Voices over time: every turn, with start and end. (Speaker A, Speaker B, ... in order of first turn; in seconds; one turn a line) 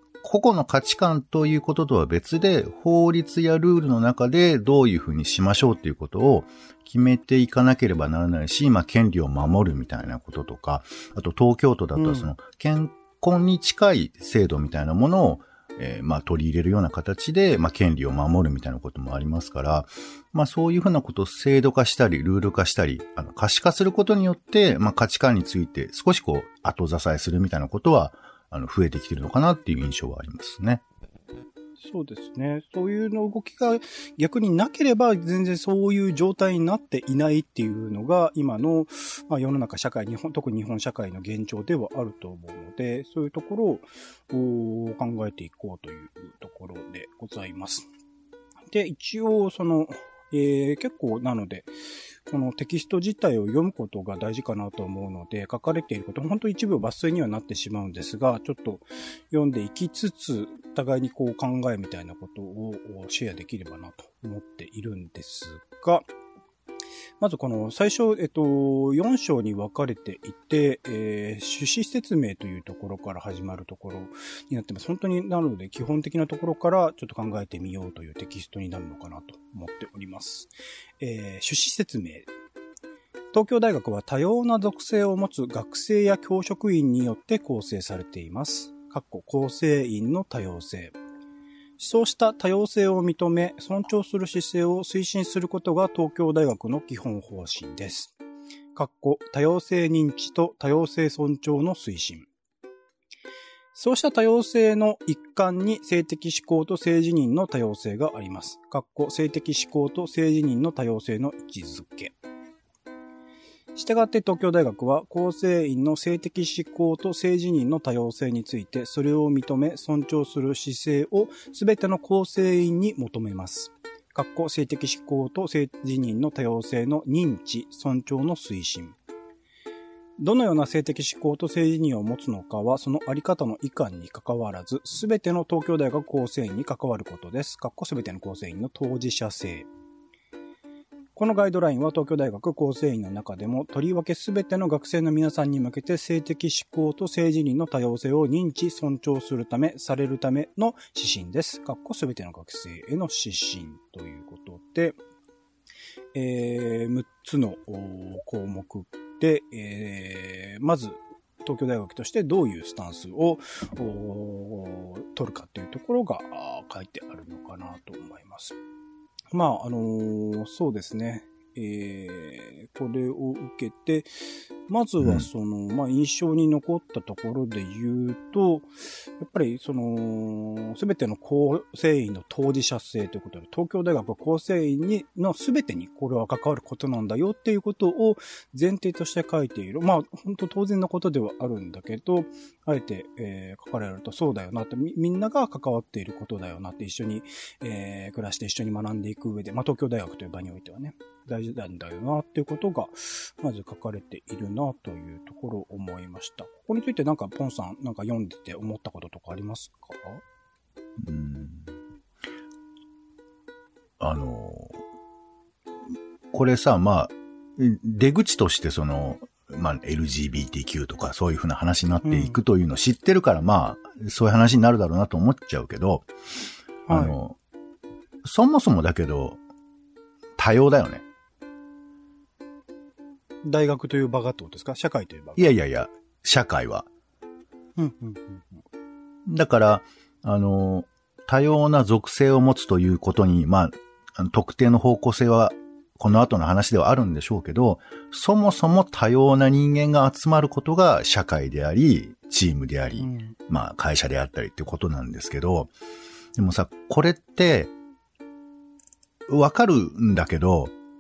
Speaker A: 0.2-30.8
Speaker B: 12.0-12.3
Speaker B: 31.8-47.9
Speaker B: 48.7-51.7
Speaker B: 52.3-66.0
Speaker B: 67.2-82.3
Speaker B: 83.3-91.0
Speaker B: 91.8-98.2
Speaker B: 98.8-102.3
Speaker B: 103.7-112.2
Speaker B: 113.8-129.0
Speaker B: 130.2-139.7
Speaker B: 141.2-155.0
Speaker B: 156.1-168.6
Speaker B: 169.3-174.1
Speaker B: 174.7-178.7
Speaker A: 175.0-175.3
Speaker B: 179.2-210.2
Speaker A: 211.0-211.7
Speaker A: 214.0-214.8
Speaker A: 216.3-226.1
Speaker B: 222.0-222.4
Speaker B: 226.9-227.2
Speaker A: 226.9-227.4
Speaker A: 228.2-229.4
Speaker A: 230.4-231.1
Speaker B: 233.4-235.6
Speaker A: 235.4-236.9
Speaker B: 237.8-238.6
Speaker A: 239.3-255.7
Speaker B: 253.0-253.4
Speaker A: 256.4-257.7
Speaker A: 259.3-260.7